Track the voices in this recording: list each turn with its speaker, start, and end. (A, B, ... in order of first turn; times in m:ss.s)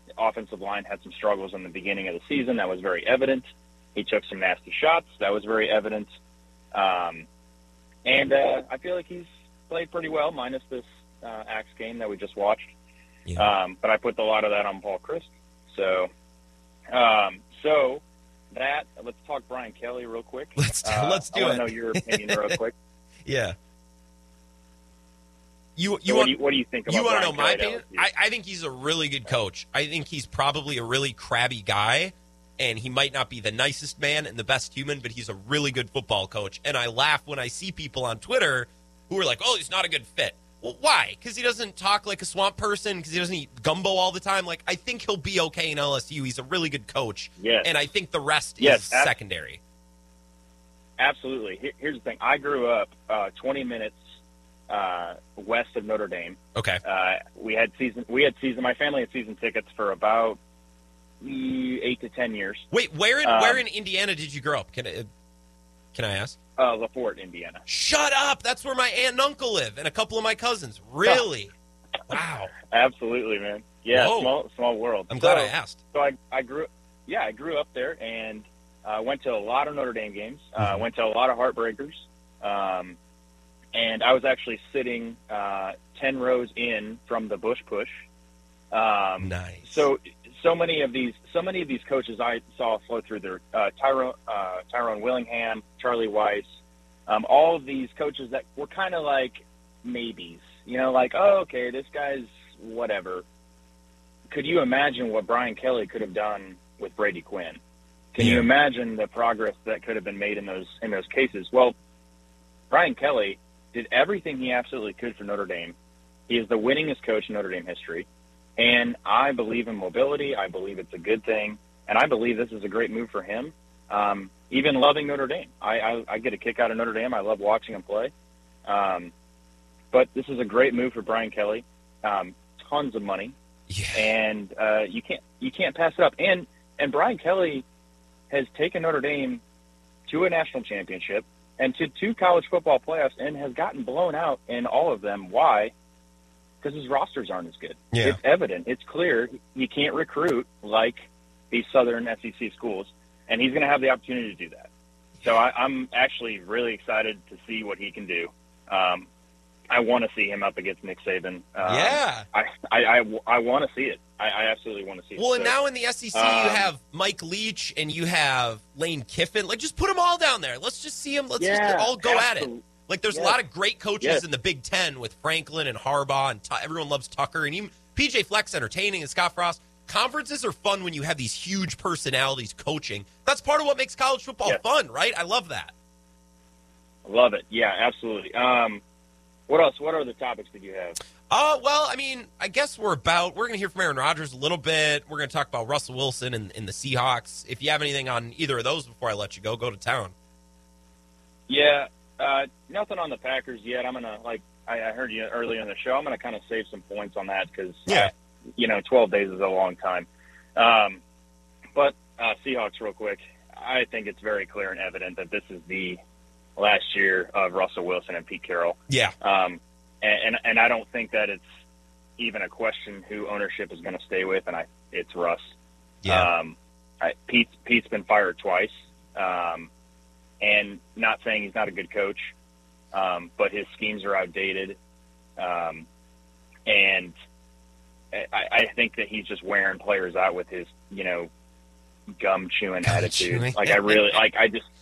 0:00.2-0:06.1 A
0:06.7-0:07.3 A
0:08.0-0:12.7 A
0:13.4-0:16.1 A
0:16.9-0:22.7 A
0:20.6-0:22.6 B
0:23.3-0:23.6 B
0:25.8-0:26.4 B
0:26.1-0:28.0 A
0:26.9-0:49.6 B
0:47.4-0:47.7 A
0:48.6-0:49.1 A
0:51.0-0:54.0 A
0:54.7-1:00.4 A
0:56.6-0:56.8 B
1:01.2-1:02.7 A
1:02.7-1:05.1 B
1:03.2-1:03.6 A
1:05.9-1:06.4 B
1:06.6-1:07.6 A
1:07.7-1:11.5 B
1:12.1-1:12.5 B
1:12.7-1:23.0 A
1:13.9-1:14.3 B
1:15.1-1:15.8 B
1:20.6-1:20.8 B
1:23.8-1:28.0 A
1:28.7-1:36.5 A
1:29.2-1:29.8 B
1:37.1-1:43.2 A
1:44.3-1:47.6 A
1:48.2-1:51.8 A
1:48.2-1:48.5 B
1:52.7-1:55.8 A
1:56.3-1:58.1 A
1:58.6-2:08.1 A
2:08.7-2:09.1 A
2:09.9-2:13.4 A
2:13.7-2:14.1 B
2:14.0-2:17.7 A
2:18.3-2:19.4 A
2:20.1-2:25.7 A
2:26.6-2:31.0 A
2:27.9-2:28.2 B
2:31.5-2:34.7 A
2:35.2-2:39.1 A
2:39.7-2:45.6 A
2:41.6-2:42.3 B
2:45.2-3:05.7 B
2:46.1-2:46.7 A
2:51.4-2:53.4 A
3:07.0-3:08.8 A
3:09.5-3:11.0 A
3:11.3-3:20.1 B
3:21.5-3:31.0 A
3:27.9-3:28.1 B
3:31.8-3:36.0 A
3:36.6-3:41.4 A
3:38.9-3:39.1 B
3:42.2-3:45.4 A
3:46.0-3:46.3 B
3:46.1-3:49.7 A
3:50.4-3:52.3 A
3:52.9-3:54.8 A
3:55.4-3:55.9 A
3:56.7-3:57.1 A
3:58.1-4:01.3 A
4:02.2-4:04.6 A
4:02.9-4:04.2 B